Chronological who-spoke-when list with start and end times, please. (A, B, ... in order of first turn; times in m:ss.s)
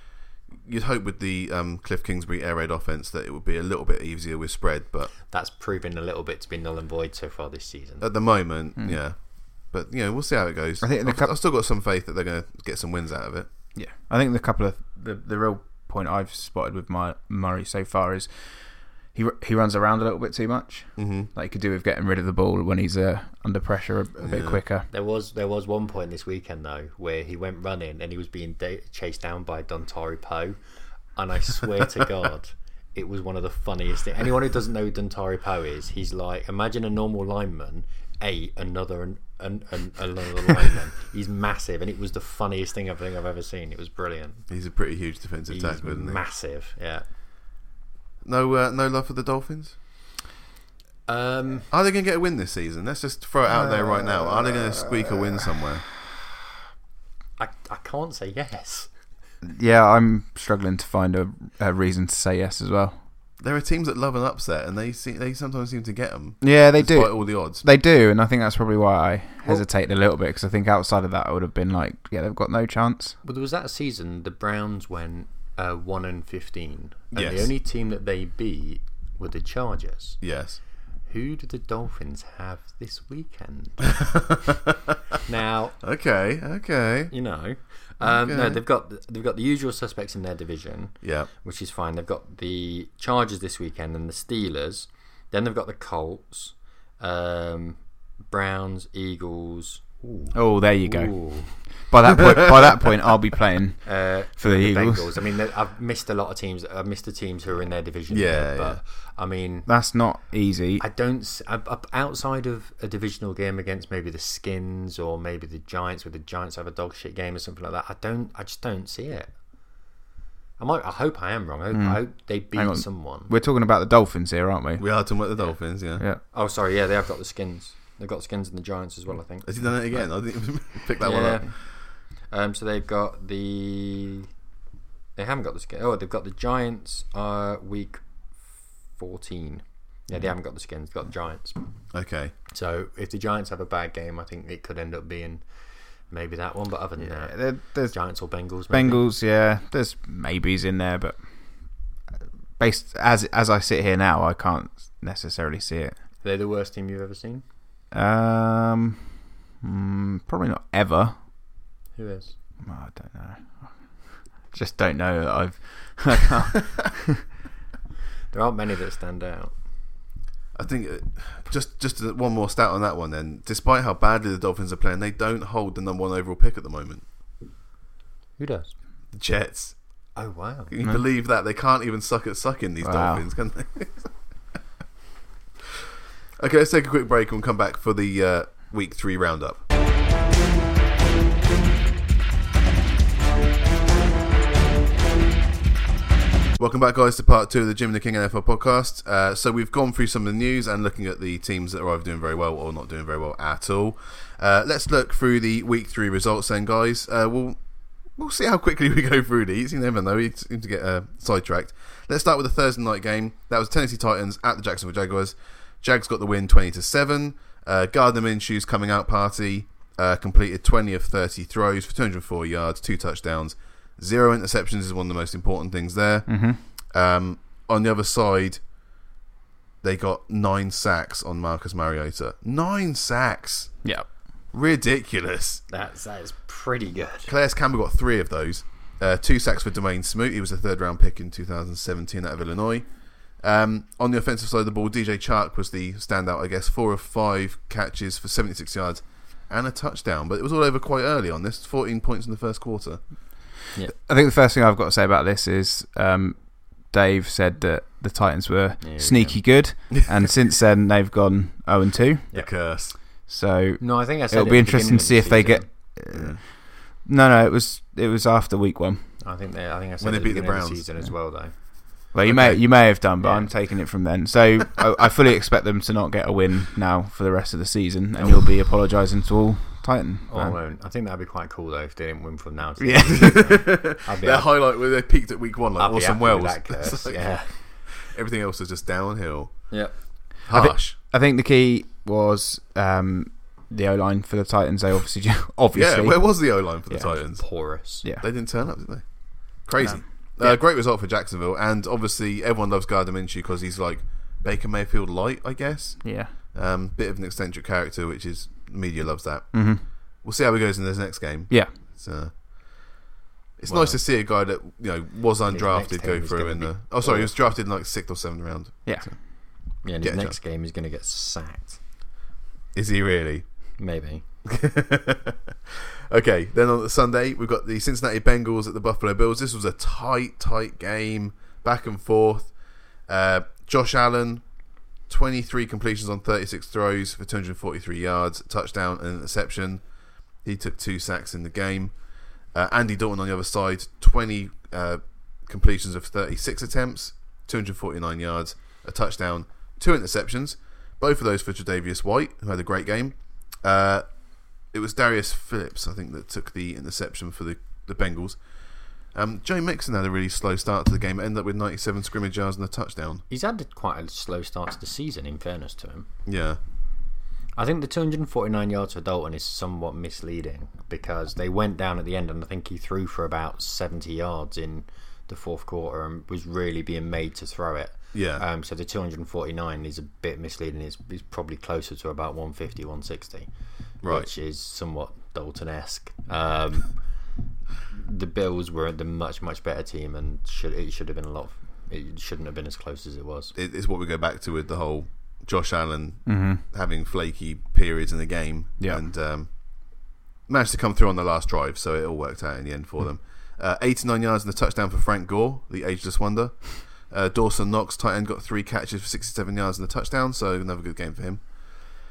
0:00.6-0:05.1 A
0:05.3-0:08.1 B
0:08.0-0:13.5 A
0:10.8-0:11.3 C
0:13.7-0:24.9 C
0:21.0-0:21.3 A
0:24.2-0:24.6 A
0:24.9-0:30.6 B
0:31.2-0:44.4 B
0:44.5-0:46.2 A
0:45.5-0:47.0 B
0:48.2-0:49.7 A
0:51.1-0:51.7 B
0:51.7-0:55.8 A
0:57.4-0:58.9 B
0:59.4-1:03.0 C
1:03.4-1:07.6 A
1:06.4-1:13.2 C
1:13.2-1:20.2 B
1:17.1-1:17.5 A
1:20.2-1:20.6 A
1:21.1-1:24.4 B
1:24.0-1:24.9 A
1:25.2-1:25.8 B
1:25.8-1:27.1 A
1:27.1-1:41.6 B
1:28.0-1:28.6 A
1:31.0-1:31.3 A
1:40.3-1:45.1 C
1:43.8-1:49.7 B
1:48.1-1:48.8 A
1:49.7-1:50.8 C
1:50.8-1:59.3 B
2:00.6-2:03.3 B
2:01.7-2:05.0 C
2:04.8-2:06.0 A
2:06.2-2:09.8 B
2:09.4-2:11.5 A
2:11.0-2:14.3 B
2:15.2-2:18.0 B
2:18.9-2:21.6 B
2:21.9-2:22.3 A
2:22.5-2:25.4 B
2:26.0-2:29.0 B
2:27.0-2:31.8 C
2:32.6-2:36.0 C
2:36.2-2:37.4 B
2:37.9-2:41.2 C
2:42.0-2:42.3 B
2:42.6-2:47.2 C
2:48.3-2:49.6 B
2:50.5-2:57.0 A
2:58.4-2:58.7 B
2:59.1-2:59.8 A
3:00.2-3:00.7 B
3:00.7-3:04.1 A
3:02.8-3:03.2 C
3:06.4-3:09.6 A
3:16.6-3:27.6 A
3:28.1-3:48.6 A
3:46.3-3:46.6 C
3:49.8-3:53.8 A
3:54.5-3:55.6 A
3:55.7-3:57.3 B
3:57.2-4:13.0 A
4:13.9-4:22.3 C
4:18.8-4:19.4 B
4:22.3-4:22.9 A
4:23.3-4:29.2 C
4:23.8-4:25.7 B
4:26.1-4:26.4 A
4:29.2-4:31.5 B
4:30.0-4:30.8 A
4:32.1-4:40.6 C
4:32.3-4:32.6 A
4:33.2-4:33.5 B
4:40.3-4:44.5 B
4:42.8-4:43.6 C
4:43.2-4:49.7 A
4:45.8-4:47.6 B
4:49.7-4:49.9 B
4:50.4-4:51.0 A
4:50.5-4:57.2 C
4:55.7-4:57.5 A
4:57.1-4:58.0 B
4:58.1-4:59.0 A
4:59.6-5:09.7 A
4:59.8-5:00.6 C
5:06.0-5:06.3 C
5:09.5-5:09.8 C
5:10.2-5:12.3 A
5:13.6-5:19.2 A
5:13.7-5:14.0 B
5:15.5-5:17.3 B
5:18.8-5:19.1 C
5:19.8-5:21.8 B
5:20.0-5:20.4 A
5:22.7-5:23.4 A
5:23.8-5:24.2 B
5:24.4-5:32.5 A
5:33.1-5:34.4 A
5:35.1-5:39.8 A
5:40.4-5:41.9 A
5:42.5-5:54.0 A
5:54.7-5:58.4 A
5:59.1-6:03.2 A
6:03.3-6:06.1 B
6:06.2-6:06.6 A
6:07.6-6:23.5 B
6:18.1-6:18.4 A
6:24.0-6:24.3 A
6:24.0-6:27.0 B
6:27.9-6:33.5 B
6:33.5-6:39.5 A
6:36.2-6:36.6 C
6:40.5-6:51.4 A